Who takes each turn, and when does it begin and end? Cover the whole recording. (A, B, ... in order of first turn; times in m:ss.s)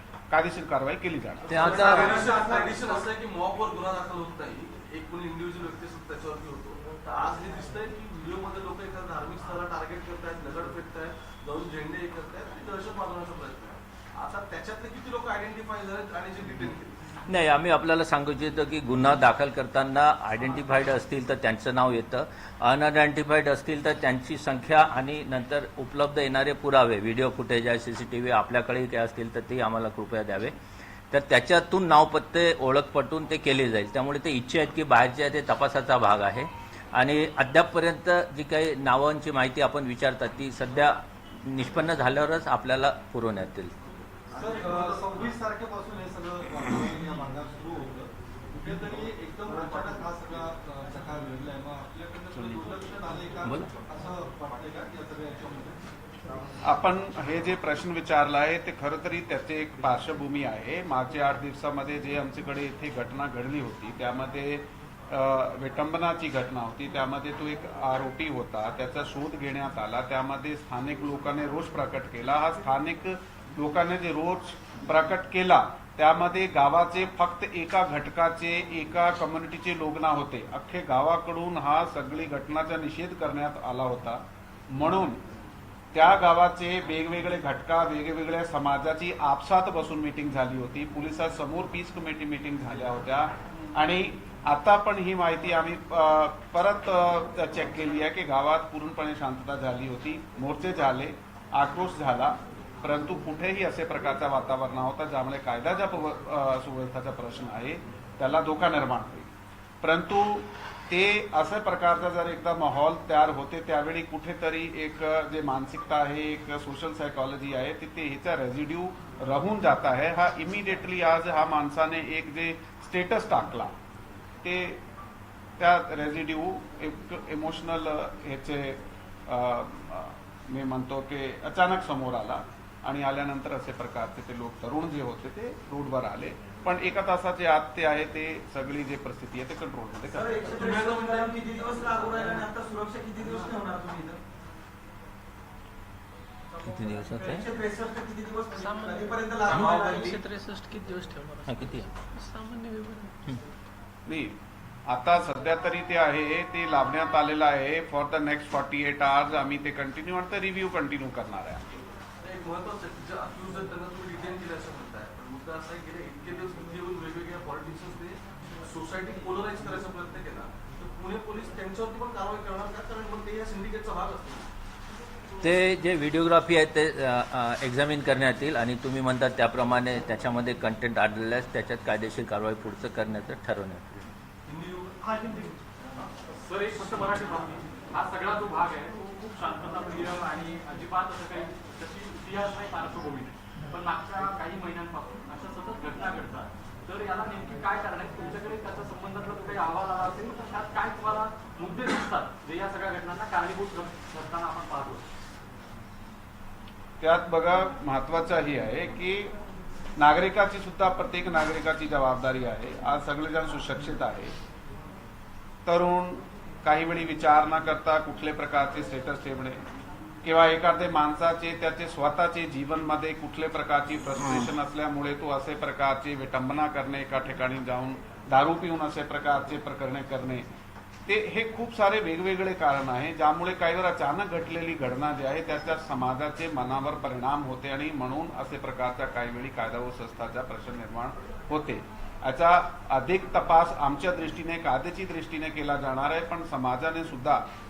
0:00.3-0:02.2 A
0:01.5-0:17.0 B
0:01.5-0:02.2 C
0:01.7-0:03.0 D
0:17.3-0:30.5 C
0:31.1-0:43.7 C
0:44.3-0:45.3 B
0:44.3-0:55.8 E
0:52.3-0:52.7 A
0:53.4-0:53.7 C
0:56.6-1:25.2 A
1:25.9-1:49.3 A
1:49.8-2:03.7 A
2:04.4-2:04.8 A
2:05.6-2:20.6 A
2:20.1-2:24.2 D
2:20.5-2:21.6 B
2:26.6-2:27.5 C
2:27.2-2:30.3 D
2:28.5-2:33.1 F
2:29.5-2:29.8 C
2:31.5-2:31.9 C
2:34.0-2:41.6 A
2:42.2-2:54.5 B
2:55.4-3:04.1 C
3:04.5-3:05.1 B
3:06.3-3:25.0 G
3:27.0-3:29.3 A
3:30.0-3:34.3 A
3:35.6-3:39.6 A
3:40.2-3:50.5 A
3:51.0-4:07.4 A